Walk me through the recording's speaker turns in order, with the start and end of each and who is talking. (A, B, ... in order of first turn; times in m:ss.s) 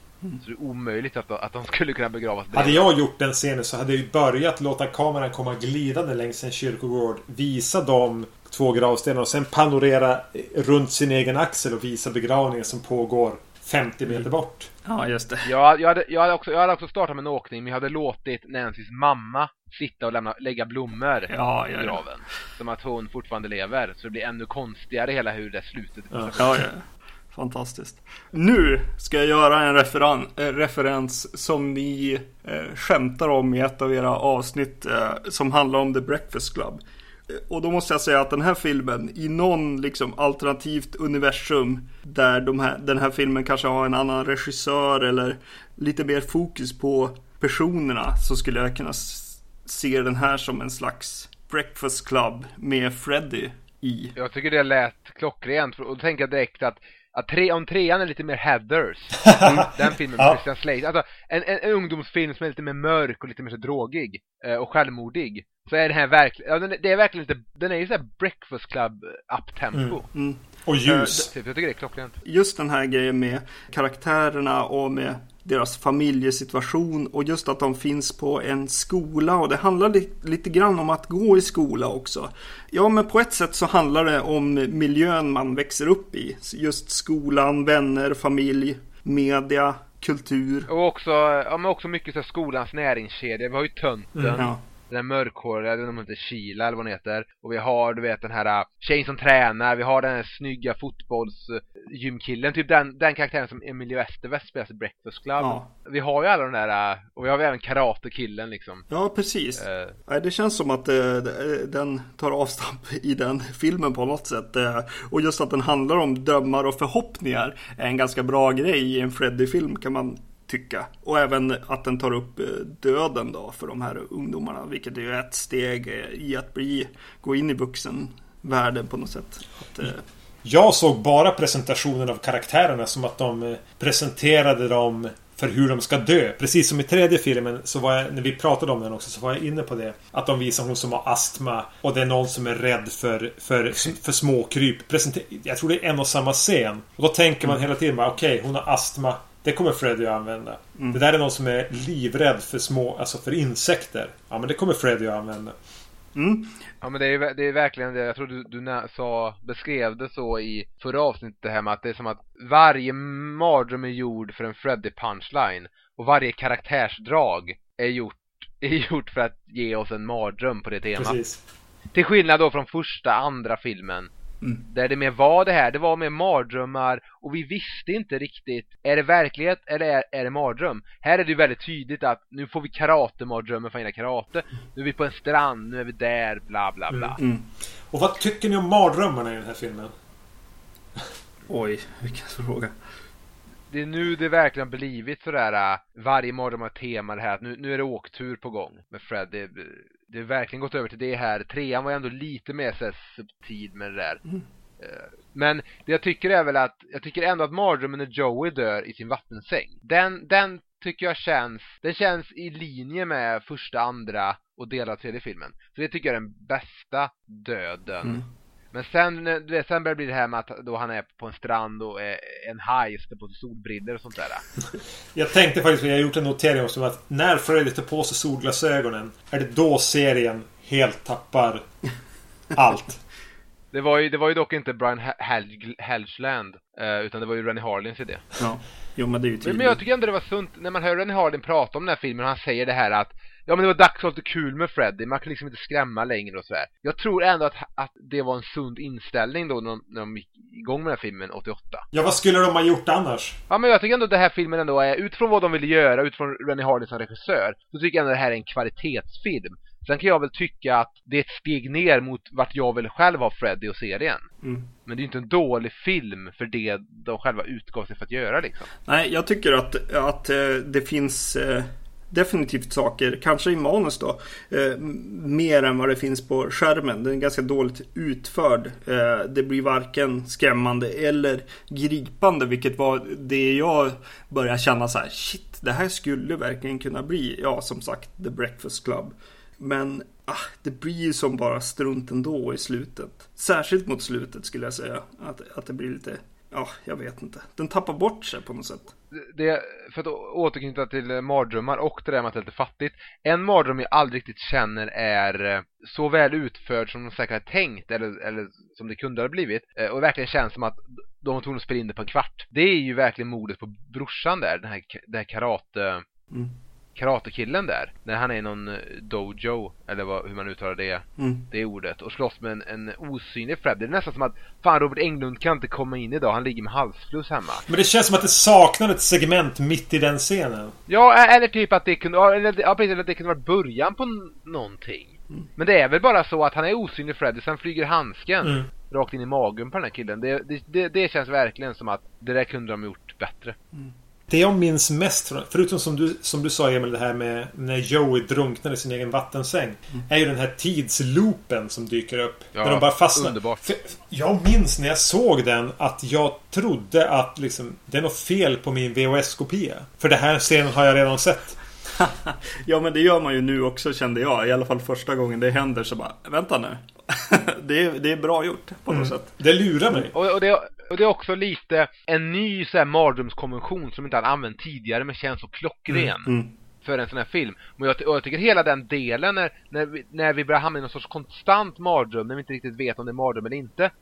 0:00.4-0:02.9 A
0:02.5-0:14.7 B
0:14.8-0:15.5 C
0:15.4-0:26.6 A
0:21.3-0:22.0 C
0:26.1-0:26.4 B
0:26.4-0:54.1 C
0:54.2-1:10.1 A
0:59.2-1:00.4 B
1:09.7-1:10.0 B
1:10.1-1:11.3 C
1:10.6-1:11.3 B
1:11.2-1:12.1 A
1:12.2-1:30.7 C
1:30.7-1:48.8 A
1:34.2-1:34.4 B
1:45.4-1:45.7 C
1:48.9-2:10.0 C
1:49.6-1:49.9 A
2:10.4-2:35.5 B
2:36.1-2:36.6 C
2:36.8-2:51.2 A
2:51.0-2:51.4 B
2:51.9-2:54.1 A
2:54.7-3:07.2 A
3:07.2-3:07.4 C
3:07.9-3:09.9 B
3:11.5-3:12.7 C
3:13.7-3:24.2 A
3:24.8-3:44.4 A
3:45.1-3:51.6 B
3:52.5-3:53.0 B
3:53.7-3:58.2 A
3:58.4-3:59.8 C
3:59.4-4:11.8 A
4:11.9-4:13.4 B
4:13.5-4:24.2 A
4:24.4-4:24.7 C
4:24.8-4:28.7 A
4:28.8-4:58.9 C
4:59.1-5:16.0 A
5:17.0-5:27.7 A
5:21.2-5:21.4 C
5:27.7-5:30.7 B
5:30.9-5:43.6 A
5:44.3-6:01.6 B
5:52.5-5:53.7 A
6:02.0-6:09.3 C
6:08.9-6:10.1 B
6:10.1-6:16.3 A
6:15.9-6:16.5 C
6:16.8-6:23.9 A